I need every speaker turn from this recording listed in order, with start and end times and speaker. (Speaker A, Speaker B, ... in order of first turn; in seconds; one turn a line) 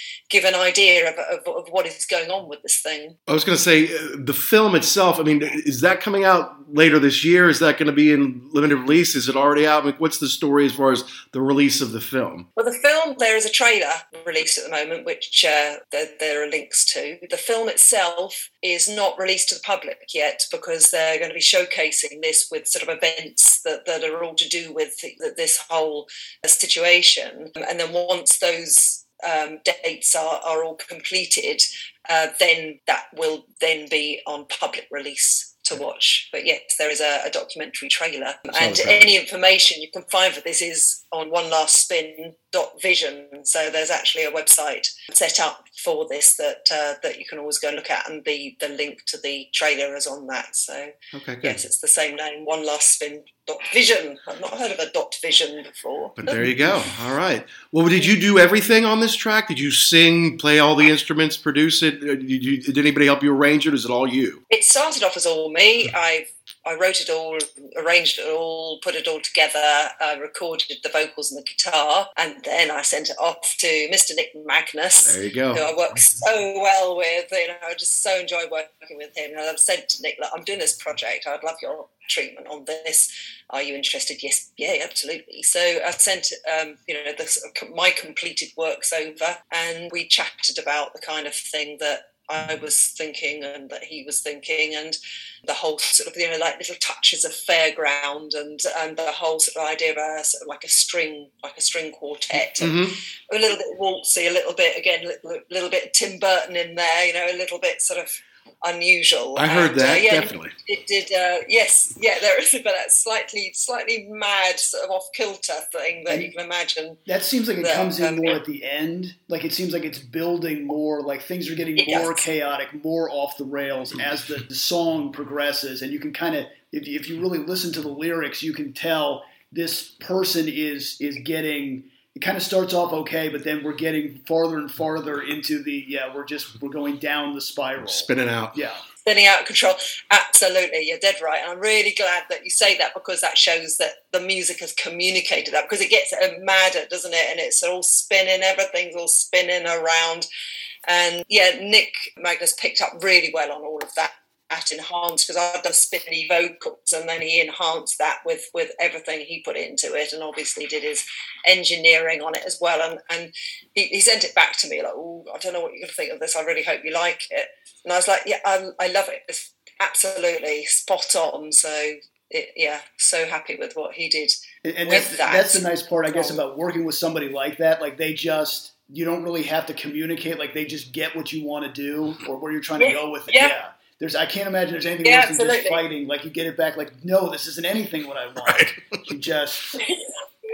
Speaker A: 0.3-3.2
Speaker B: 3.3-12.5
Speaker A: 12.6-56.5
Speaker B: 38.5-39.1
Speaker B: 51.1-51.6
Speaker B: 56.2-64.4
Speaker A: 64.5-102.8
Speaker B: 75.0-76.0
Speaker B: 102.6-102.9
Speaker A: 103.3-117.0
Speaker B: 109.3-110.5
Speaker C: 117.1-138.8
Speaker A: 117.6-118.4
Speaker A: 121.8-122.2
Speaker B: 137.8-138.6
Speaker A: 139.0-150.3
Speaker A: 150.9-174.3
Speaker C: 174.6-189.7
Speaker A: 174.9-176.4
Speaker A: 182.8-183.5
Speaker A: 185.0-185.8
Speaker B: 188.4-189.0
Speaker A: 189.8-190.1